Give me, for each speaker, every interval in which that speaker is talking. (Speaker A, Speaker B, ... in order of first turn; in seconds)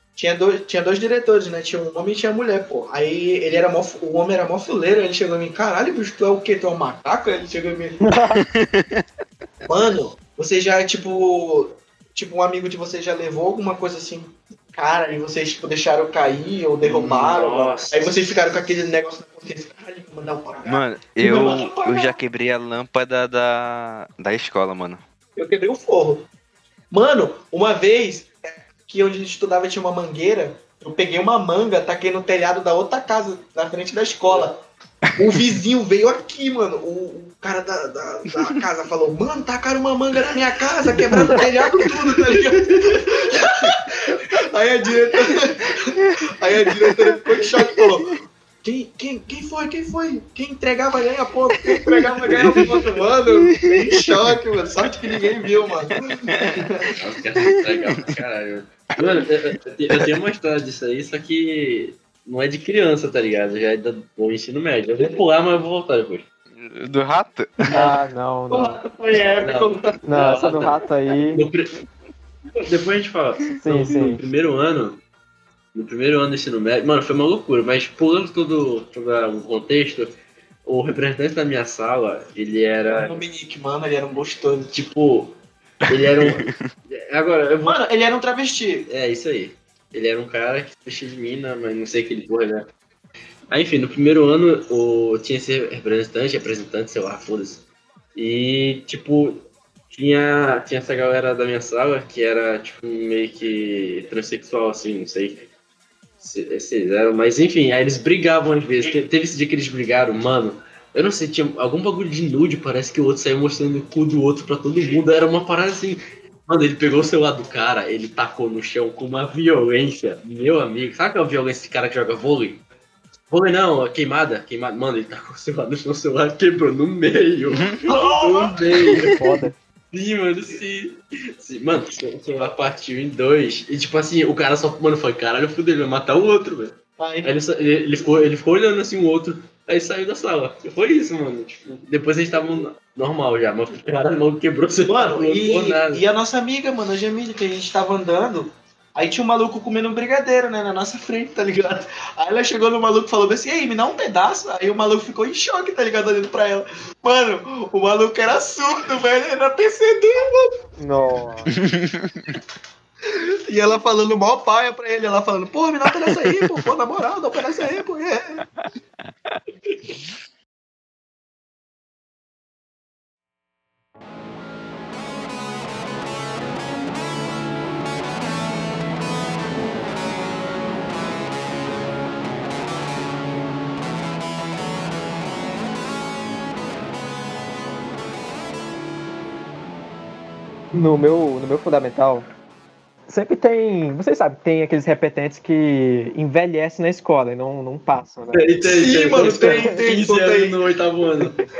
Speaker A: 0.1-8.0, 9.7-22.2, 25.4-26.2, 26.9-34.6, 35.2-56.9, 68.5-70.0, 82.9-84.7, 87.6-88.9, 127.8-128.9, 137.0-137.3, 144.8-160.6, 163.1-168.4, 198.6-200.6
Speaker B: 8.0-8.4, 67.7-68.8, 70.0-71.4, 73.6-74.2, 129.1-129.6, 160.8-161.5, 190.7-192.3, 193.1-198.5, 199.1-199.8
Speaker C: 8.4-9.0, 20.6-25.0, 35.1-35.4, 43.4-43.7, 46.7-48.0, 52.4-52.8, 53.3-54.4, 56.2-56.7, 57.7-58.1, 59.9-60.2, 66.5-67.6, 85.9-86.7, 127.6-127.9, 161.6-162.4, 165.9-166.6, 168.6-169.4
Speaker D: 16.8-18.1, 57.0-66.2, 69.4-70.8, 71.3-71.7, 72.6-75.0, 75.7-83.2, 84.7-85.3, 85.9-87.8, 88.9-92.7, 93.5-97.6, 98.1-105.5, 106.2-122.6, 123.3-129.2, 129.9-146.0, 198.3-201.4